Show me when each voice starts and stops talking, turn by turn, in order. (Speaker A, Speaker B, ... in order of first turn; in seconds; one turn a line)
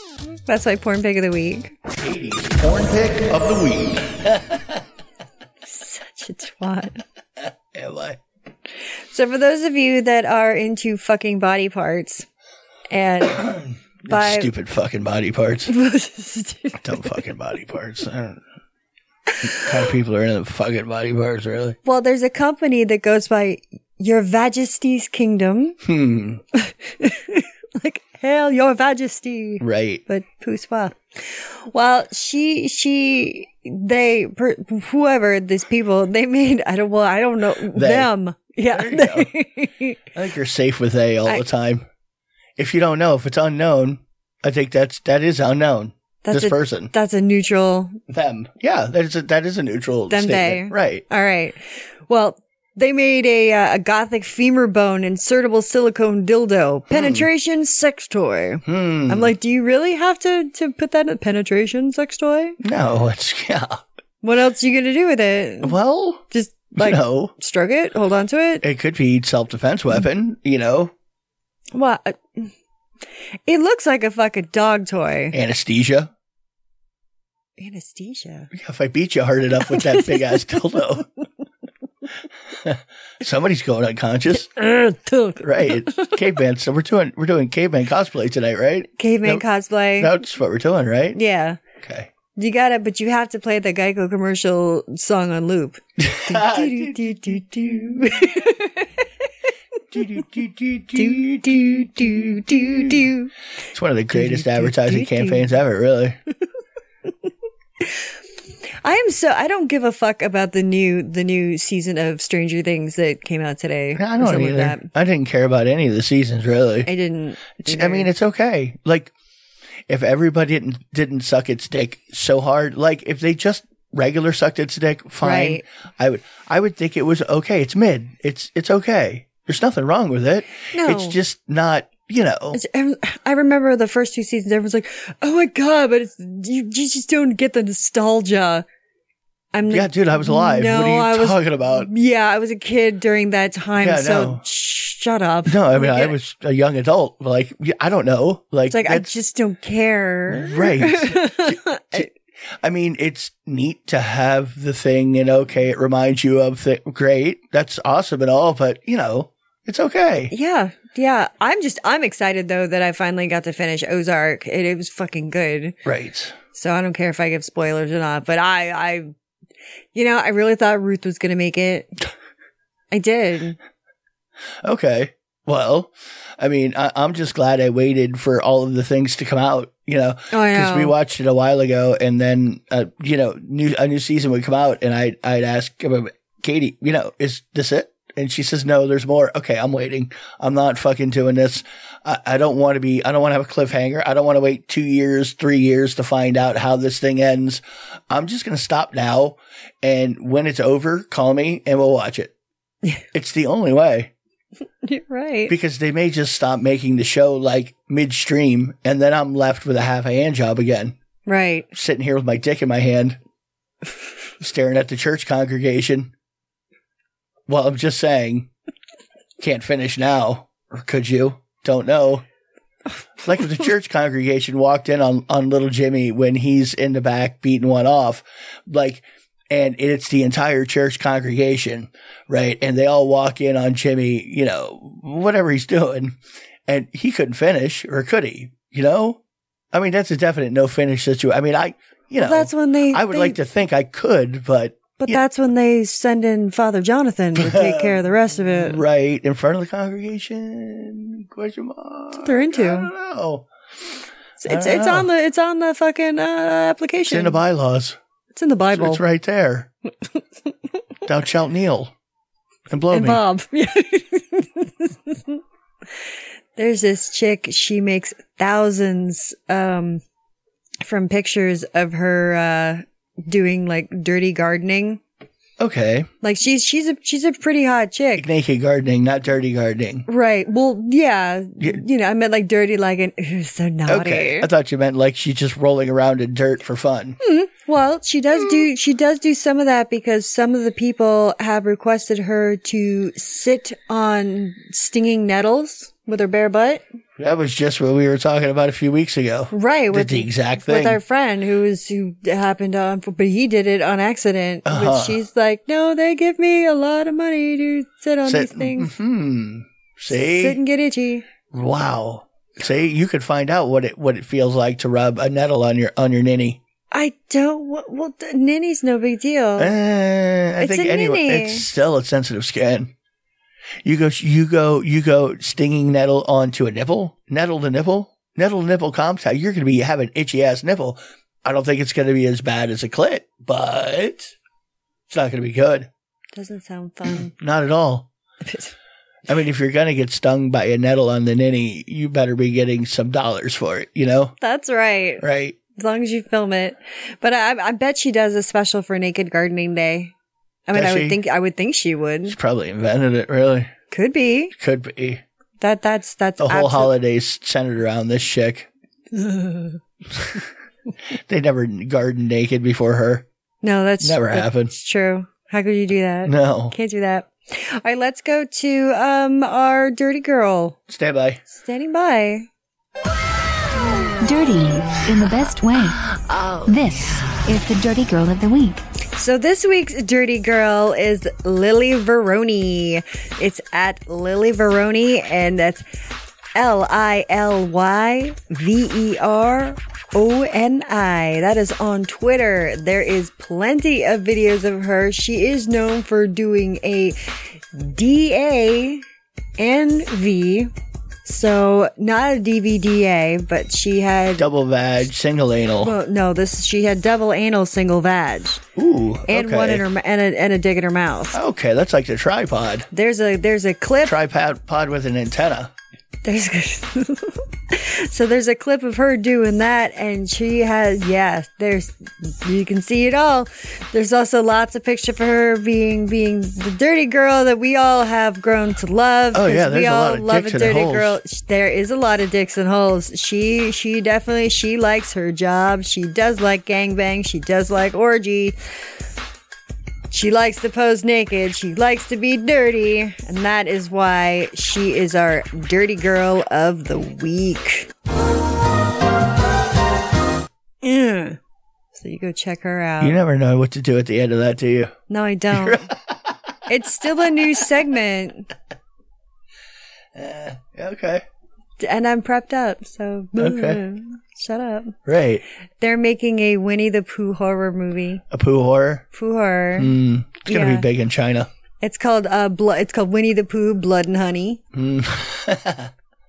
Speaker A: 0.5-1.7
Speaker B: 2.0-4.8
Speaker A: 5.6-7.0
Speaker B: 7.4-8.2
Speaker A: 9.1-12.3
Speaker A: 12.9-14.5
Speaker B: 14.0-15.7
Speaker A: 15.7-17.1
Speaker B: 16.8-18.4
Speaker B: 19.4-21.8
Speaker A: 21.9-25.8
Speaker B: 25.8-26.4
Speaker A: 26.5-40.0
Speaker B: 29.6-30.0
Speaker B: 37.7-38.1
Speaker B: 38.7-39.3
Speaker B: 40.1-41.9
Speaker B: 42.6-46.9
Speaker A: 46.2-48.0
Speaker B: 48.1-51.0
Speaker A: 50.1-62.6
Speaker B: 56.9-57.3
Speaker B: 58.6-59.3
Speaker B: 62.6-63.8
Speaker A: 64.2-65.8
Speaker B: 65.6-66.2
Speaker A: 66.3-68.6
Speaker B: 66.8-67.3
Speaker B: 68.6-70.9
Speaker A: 71.7-72.5
Speaker A: 73.5-75.3
Speaker B: 75.3-76.1
Speaker A: 77.6-78.5
Speaker B: 78.5-81.1
Speaker A: 79.6-80.9
Speaker B: 82.6-84.5
Speaker A: 84.4-86.2
Speaker B: 85.4-89.5
Speaker A: 89.0-90.2
Speaker B: 90.0-91.2
Speaker A: 91.1-91.6
Speaker B: 91.8-92.1
Speaker A: 92.3-99.3
Speaker B: 96.0-97.0
Speaker B: 99.9-102.9
Speaker A: 101.0-103.3
Speaker B: 103.7-106.2
Speaker A: 104.1-105.5
Speaker A: 107.8-108.1
Speaker A: 108.8-114.9
Speaker B: 114.0-116.9
Speaker A: 116.9-118.1
Speaker B: 117.6-119.1
Speaker B: 119.9-132.6
Speaker A: 125.2-125.6
Speaker A: 130.7-131.2
Speaker A: 132.5-138.7
Speaker A: 139.5-146.2
Speaker B: 139.7-141.9
Speaker B: 143.8-144.4
Speaker B: 145.5-149.1
Speaker A: 148.7-152.1
Speaker B: 150.3-152.1
Speaker B: 152.6-160.3
Speaker A: 160.3-165.8
Speaker B: 165.9-166.4
Speaker A: 166.5-169.1
Speaker A: 169.9-171.9
Speaker A: 172.9-173.6
Speaker B: 174.6-202.3
Speaker A: 180.3-180.9
Speaker B: 203.1-204.1
Speaker A: 204.8-205.5
Speaker B: 205.5-210.9
Speaker A: 211.3-211.7
Speaker B: 211.7-213.2
Speaker B: 214.4-216.1
Speaker B: 217.5-218.5
Speaker B: 219.4-222.2
Speaker B: 223.2-236.1
Speaker B: 236.7-239.2
Speaker B: 239.7-245.2
Speaker A: 242.2-243.4
Speaker A: 245.0-248.8
Speaker B: 247.3-253.5
Speaker A: 252.2-252.9
Speaker A: 254.4-257.4
Speaker B: 254.5-255.1
Speaker B: 257.1-258.0
Speaker A: 258.3-259.0
Speaker B: 258.7-259.7
Speaker B: 261.1-261.9
Speaker B: 262.7-263.2
Speaker A: 262.9-265.4
Speaker A: 266.6-270.0
Speaker A: 270.8-275.0
Speaker B: 275.6-276.1
Speaker A: 276.2-278.3
Speaker B: 278.2-280.1
Speaker A: 280.1-284.5
Speaker B: 283.9-287.2
Speaker A: 287.2-296.8
Speaker B: 297.2-301.0
Speaker A: 299.5-308.9
Speaker B: 304.6-305.2
Speaker B: 308.2-310.6
Speaker A: 310.1-311.2
Speaker B: 311.5-316.6
Speaker A: 316.9-319.7
Speaker B: 319.6-322.9
Speaker A: 320.6-321.7
Speaker B: 323.9-334.4
Speaker B: 335.1-335.9
Speaker A: 336.3-337.3
Speaker B: 337.3-338.1
Speaker A: 338.4-338.7
Speaker B: 339.3-344.3
Speaker A: 344.4-350.1
Speaker B: 345.2-345.6
Speaker A: 350.7-352.4
Speaker B: 350.7-351.2
Speaker B: 352.3-353.7
Speaker A: 353.9-354.5
Speaker B: 354.6-355.2
Speaker A: 355.6-356.9
Speaker B: 356.4-358.7
Speaker A: 359.1-359.8
Speaker B: 361.2-363.2
Speaker A: 363.6-370.8
Speaker B: 364.0-364.7
Speaker B: 366.2-366.8
Speaker B: 370.9-371.4
Speaker A: 371.5-372.5
Speaker C: 374.2-376.0
Speaker C: 376.6-378.8
Speaker A: 379.1-385.9
Speaker A: 386.6-399.0
Speaker A: 399.6-400.7
Speaker A: 401.2-404.5
Speaker B: 404.4-405.9
Speaker A: 405.8-408.6
Speaker B: 408.8-409.8
Speaker A: 409.3-411.4
Speaker B: 411.3-412.9
Speaker A: 412.9-414.2
Speaker B: 414.0-415.7
Speaker A: 416.2-438.6
Speaker B: 429.3-431.2
Speaker A: 440.1-447.9
Speaker A: 450.8-451.4
Speaker A: 451.9-453.2
Speaker B: 453.0-454.9
Speaker A: 455.1-455.9
Speaker B: 455.5-456.4
Speaker A: 456.7-458.5
Speaker B: 460.1-461.2
Speaker A: 461.8-465.0
Speaker B: 463.4-463.8
Speaker B: 465.1-465.4
Speaker A: 465.8-468.2
Speaker B: 468.3-469.0
Speaker A: 469.1-469.9
Speaker B: 469.8-471.5
Speaker A: 470.5-470.9
Speaker A: 471.8-474.6
Speaker B: 474.7-475.9